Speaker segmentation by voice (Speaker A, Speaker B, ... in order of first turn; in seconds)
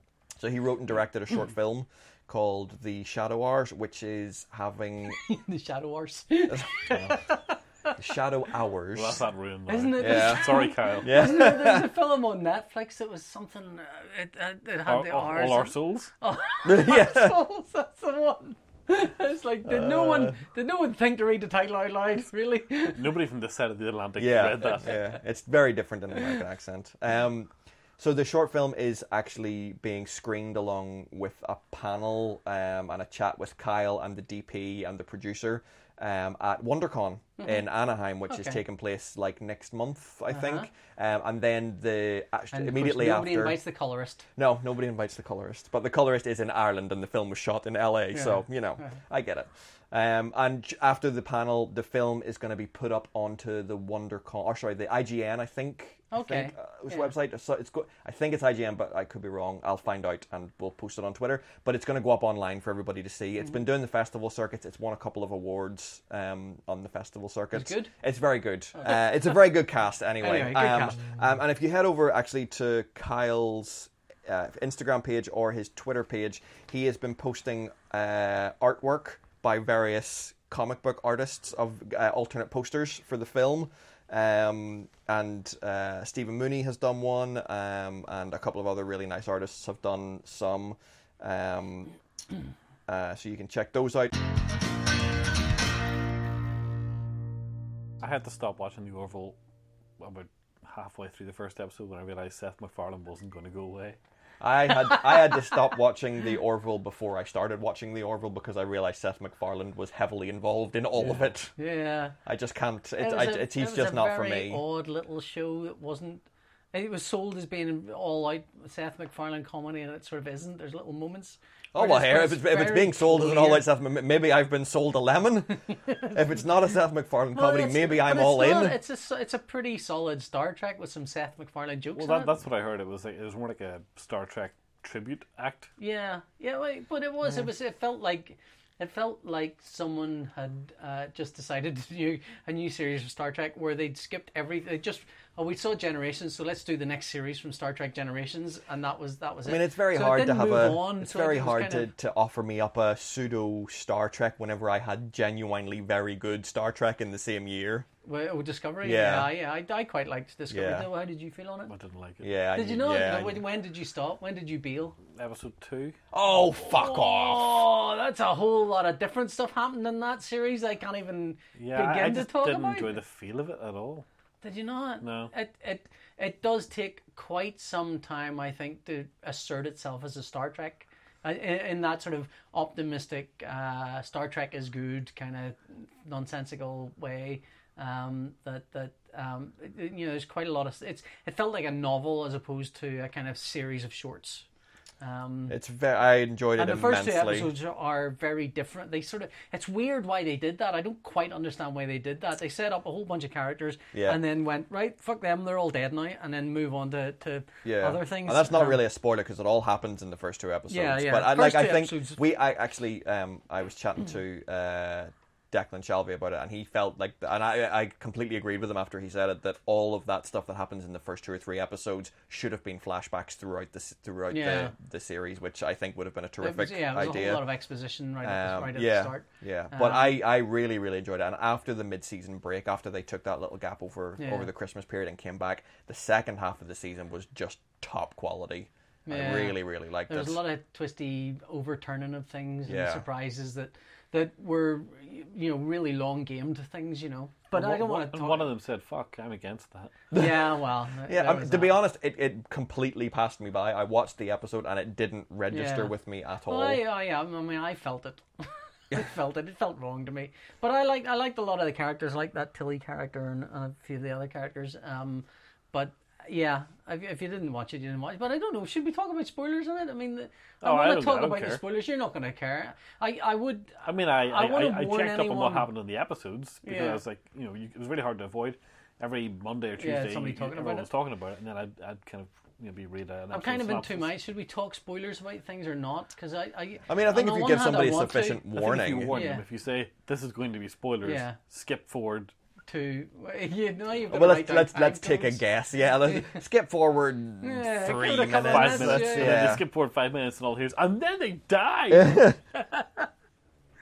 Speaker A: 0.4-5.2, 6.5-7.2, 8.0-9.2, 10.0-11.9, 16.6-17.4, 19.6-20.4, 24.2-43.6, 44.4-92.0, 92.9-94.1, 104.4-111.5, 112.2-114.6, 121.7-128.8, 149.4-157.9, 158.8-159.3, 160.5-160.9, 162.2-163.4, 166.1-167.6, 195.5-197.5, 203.9-204.2, 207.7-227.4, 228.2-240.4, 242.7-243.1, 250.1-250.5, 251.1-256.8, 286.9-289.1, 294.1-299.6, 301.9-302.4
Speaker B: 5.1-8.0, 9.7-23.1, 37.4-37.6, 38.3-38.6, 40.3-40.7, 42.5-44.2, 48.1-49.0, 56.1-57.0, 67.5-67.9, 68.8-69.4, 70.2-71.0, 104.9-105.4, 111.6-112.2, 113.0-123.7, 127.3-132.3, 135.8-151.9, 158.0-161.7, 162.6-165.0, 166.7-173.0, 174.4-194.5, 195.0-195.6, 196.6-208.8, 210.7-212.2, 224.3-224.7, 226.4-230.2, 234.2-234.5, 239.1-248.5, 250.1-251.8, 255.5-255.9, 256.5-275.7, 276.6-277.0, 279.8-280.9, 283.3-289.4, 291.0-291.4, 292.7-295.4, 296.0-296.4, 297.4-299.5, 302.6-303.1
Speaker C: 8.9-11.2, 14.9-16.1, 22.9-25.0, 98.0-99.4, 100.0-104.0, 132.0-135.7, 161.7-162.3, 165.1-166.0, 171.6-174.1, 175.0-175.3, 247.5-249.9, 270.6-271.6, 273.9-284.1, 288.6-292.3, 298.5-302.3